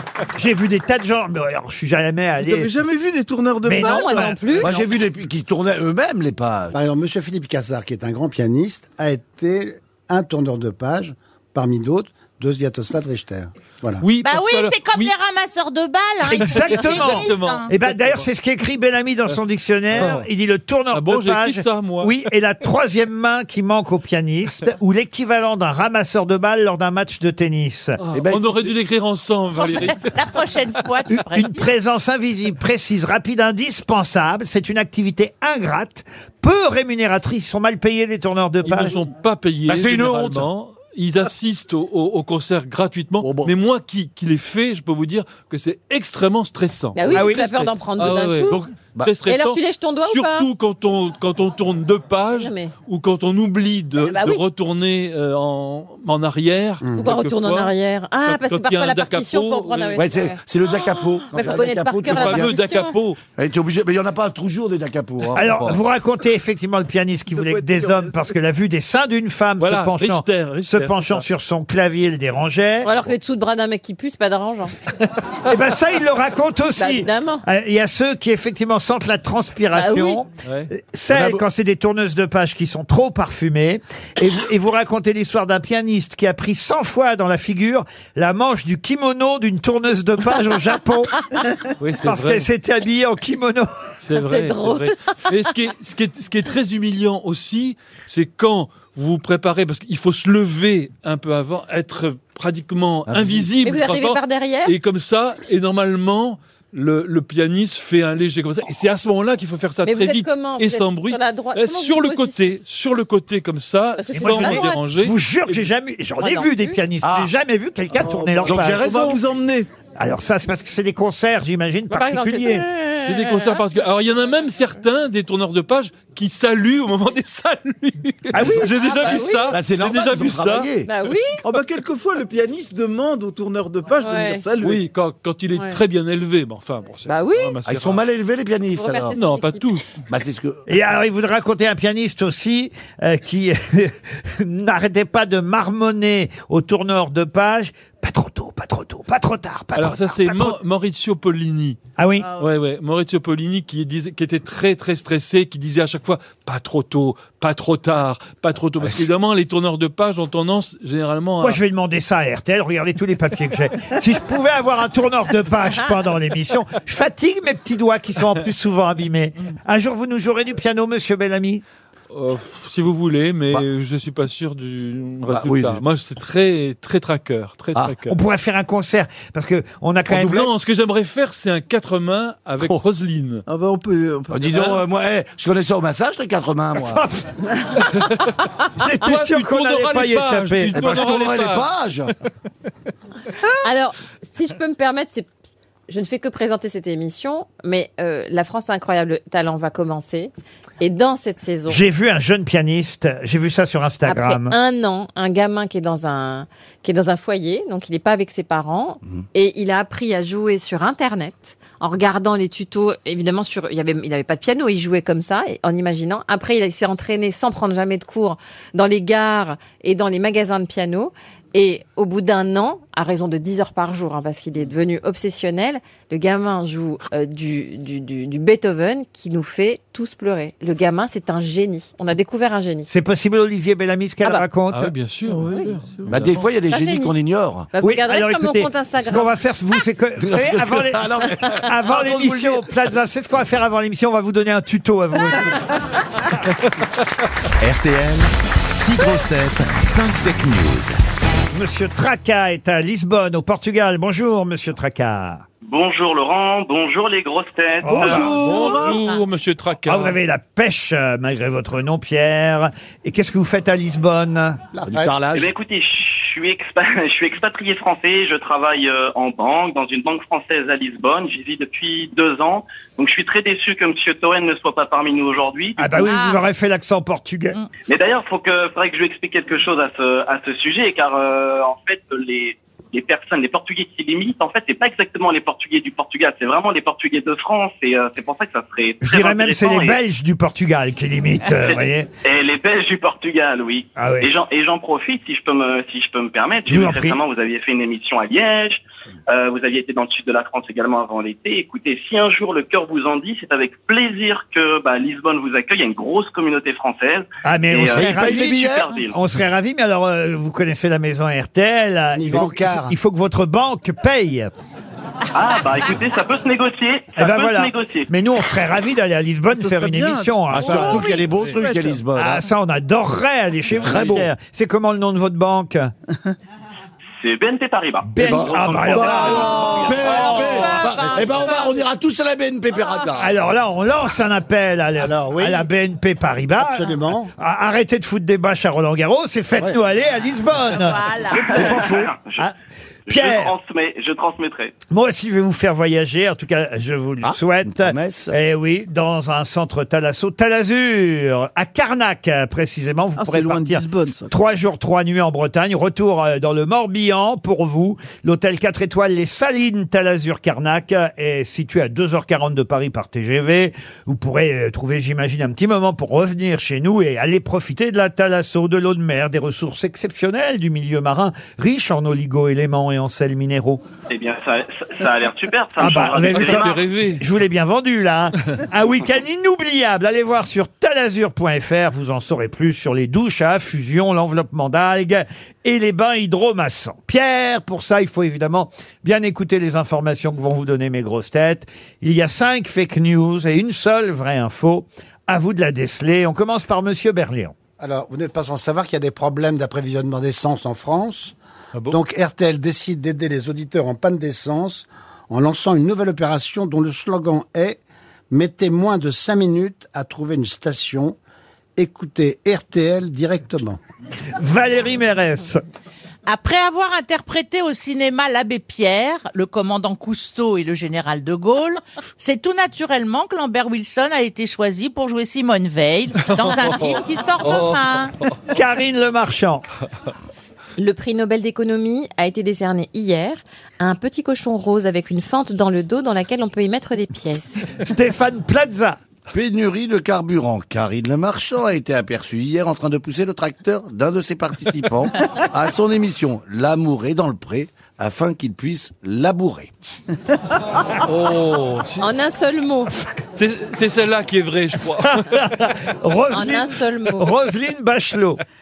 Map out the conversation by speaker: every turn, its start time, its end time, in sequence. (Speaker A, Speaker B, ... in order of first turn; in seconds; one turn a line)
Speaker A: 0.3-2.8
Speaker B: 2.4-4.4
Speaker A: 3.6-4.8
Speaker C: 3.8-4.8
Speaker D: 4.6-6.8
Speaker E: 6.7-14.0
Speaker F: 14.0-15.1
Speaker G: 14.2-17.7
Speaker A: 16.3-28.0
Speaker F: 16.3-18.3
Speaker F: 19.9-20.3
Speaker D: 19.9-20.2
Speaker F: 20.9-22.1
Speaker F: 28.0-30.4
Speaker D: 28.1-28.7
Speaker G: 29.6-31.7
Speaker A: 31.1-39.0
Speaker F: 38.6-60.0
Speaker D: 39.7-40.5
Speaker D: 43.2-43.5
Speaker C: 47.0-48.6
Speaker A: 47.1-47.5
Speaker D: 48.5-49.1
Speaker C: 49.3-50.5
Speaker C: 52.4-52.7
Speaker C: 54.1-54.4
Speaker E: 56.8-57.1
Speaker C: 57.0-60.4
Speaker D: 60.0-62.6
Speaker C: 61.0-63.0
Speaker F: 62.1-63.2
Speaker D: 63.4-65.8
Speaker A: 65.3-72.9
Speaker B: 67.3-68.3
Speaker F: 69.6-71.2
Speaker C: 72.8-74.8
Speaker A: 75.5-91.2
Speaker C: 76.8-77.5
Speaker C: 79.7-80.2
Speaker F: 80.4-80.7
Speaker D: 81.1-81.4
Speaker F: 91.8-92.5
Speaker A: 92.0-93.7
Speaker F: 94.0-115.7
Speaker C: 94.2-95.1
Speaker D: 103.1-103.5
Speaker C: 103.6-104.7
Speaker C: 109.8-112.5
Speaker C: 114.0-114.9
Speaker A: 114.2-119.0
Speaker C: 116.2-116.8
Speaker D: 117.0-117.3
Speaker B: 118.0-119.7
Speaker D: 118.4-119.2
Speaker A: 120.0-122.6
Speaker C: 121.9-123.6
Speaker F: 123.1-130.7
Speaker A: 128.3-129.0
Speaker C: 128.6-129.6
Speaker D: 129.5-130.9
Speaker C: 130.9-131.4
Speaker B: 131.4-134.8
Speaker C: 134.0-134.4
Speaker F: 134.6-138.0
Speaker C: 137.1-137.6
Speaker D: 137.7-139.2
Speaker C: 138.8-139.7
Speaker F: 139.2-139.9
Speaker D: 140.1-140.6
Speaker A: 140.7-150.6
Speaker F: 149.8-151.8
Speaker A: 152.0-152.3
Speaker F: 152.4-161.6
Speaker A: 161.4-171.6
Speaker F: 172.1-178.2
Speaker D: 175.3-175.8
Speaker A: 178.1-180.4
Speaker D: 180.1-180.4
Speaker F: 180.1-183.4
Speaker B: 183.5-184.8
Speaker D: 184.3-187.1
Speaker A: 186.9-187.3
Speaker F: 187.9-188.2
Speaker A: 188.8-190.9
Speaker F: 189.0-191.7
Speaker D: 190.7-192.1
Speaker C: 193.6-195.3
Speaker C: 195.9-201.8
Speaker A: 201.7-204.6
Speaker C: 204.1-232.9
Speaker A: 232.9-234.9
Speaker F: 234.7-236.4
Speaker B: 235.3-236.4
Speaker D: 236.1-237.7
Speaker C: 236.7-237.1
Speaker C: 237.7-239.3
Speaker A: 237.8-245.6
Speaker D: 240.2-242.6
Speaker H: 247.6-251.0
Speaker A: 251.5-255.5
Speaker I: 255.6-258.4
Speaker A: 257.8-258.4
Speaker B: 257.9-259.1
Speaker F: 258.1-260.2
Speaker G: 258.9-259.1
Speaker A: 259.9-264.6
Speaker E: 264.8-265.1
Speaker D: 264.8-265.5
Speaker I: 265.3-275.9
Speaker A: 275.8-277.6
Speaker G: 276.0-276.4
Speaker I: 277.9-290.0
Speaker A: 289.0-292.1
Speaker I: 291.6-309.1
Speaker A: 294.0-294.3
Speaker A: 296.7-297.2
Speaker A: 307.4-314.5
Speaker D: 307.9-309.0
Speaker E: 312.1-313.0
Speaker I: 315.3-318.1
Speaker A: 317.2-321.2
Speaker B: 319.5-322.0
Speaker D: 320.5-322.5
Speaker A: 322.2-325.9
Speaker D: 323.7-324.3
Speaker I: 327.2-330.3
Speaker A: 328.0-329.8
Speaker D: 328.2-333.3
Speaker G: 329.8-331.9
Speaker A: 333.2-341.1
Speaker E: 335.0-335.7
Speaker E: 336.6-337.3
Speaker G: 340.7-341.8
Speaker D: 341.3-342.2
Speaker I: 341.4-342.5
Speaker I: 343.1-344.7
Speaker A: 343.1-343.5
Speaker A: 344.9-373.8
Speaker D: 347.2-348.4
Speaker B: 353.2-354.4
Speaker I: 374.1-376.8
Speaker A: 375.8-397.6
Speaker F: 376.2-377.2
Speaker E: 397.8-401.4
Speaker E: 401.9-411.2
Speaker E: 411.8-413.8
Speaker A: 414.4-415.6
Speaker G: 416.3-428.1
Speaker F: 426.2-428.4
Speaker A: 428.5-429.6
Speaker C: 430.8-437.6
Speaker A: 437.8-439.0
Speaker D: 439.3-449.7
Speaker F: 451.1-452.1
Speaker C: 452.0-452.9
Speaker F: 453.4-455.4
Speaker A: 455.1-458.4
Speaker C: 456.3-457.3